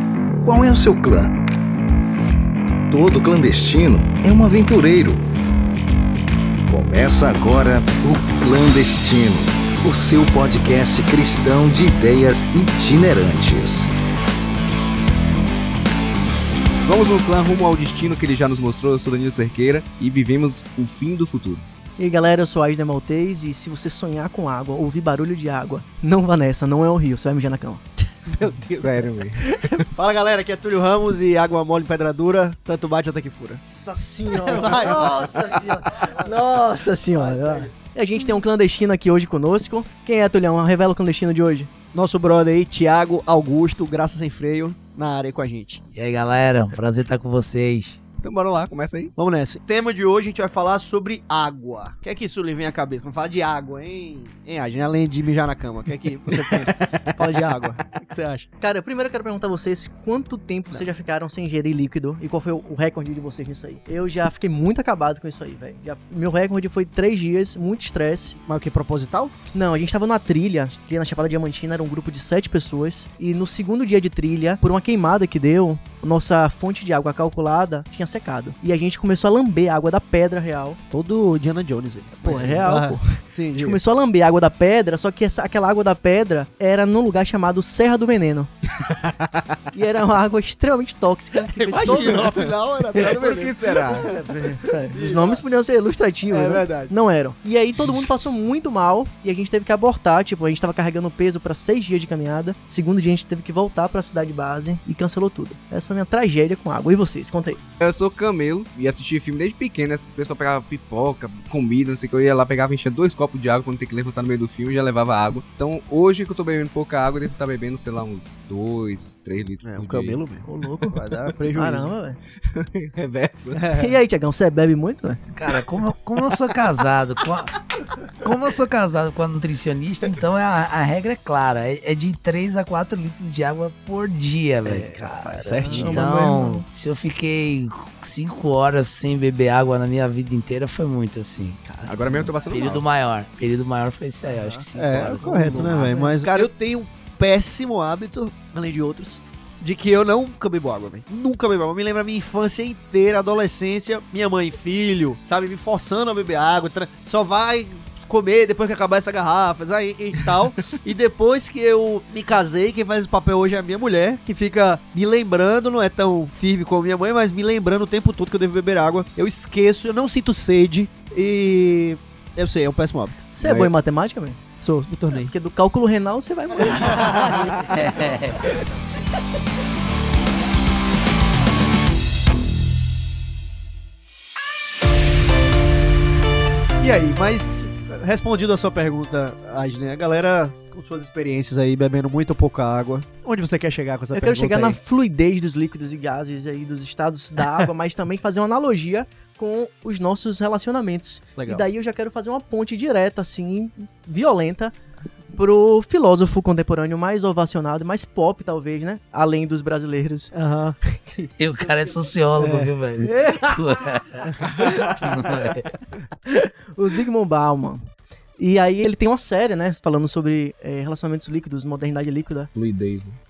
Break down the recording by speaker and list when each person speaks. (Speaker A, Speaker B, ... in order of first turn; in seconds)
Speaker A: 0.4-1.4, 2.9-5.3, 6.7-13.9
Speaker B: 16.8-21.7, 28.8-29.6, 48.2-49.1, 91.8-92.3, 93.0-94.1, 107.8-120.2, 122.4-123.6, 141.8-142.8, 145.8-146.1, 173.4-173.7, 222.5-223.2
Speaker C: 22.0-28.2, 33.7-41.7, 58.6-68.4, 69.5-80.8, 82.2-88.5, 89.7-107.6, 120.5-122.2, 123.8-125.2, 135.6-136.6, 144.4-146.5, 173.3-174.4, 175.1-178.5, 194.1-204.8, 205.3-210.3, 210.8-212.1, 216.3-222.5
Speaker D: 28.3-33.7, 34.3-36.3, 37.1-37.7, 41.9-45.8, 49.2-58.5, 68.4-69.3, 80.9-83.8, 91.5-95.4, 96.3-96.9, 119.6-121.9, 123.5-124.0, 134.7-136.1, 141.7-142.5, 144.8-173.3, 174.6-175.3, 176.8-177.4, 186.8-194.8, 201.4-201.7, 210.3-210.8, 212.4-213.5
Speaker E: 45.9-48.0, 125.3-127.6, 128.2-141.6, 142.5-146.0, 177.7-178.5, 211.4-215.7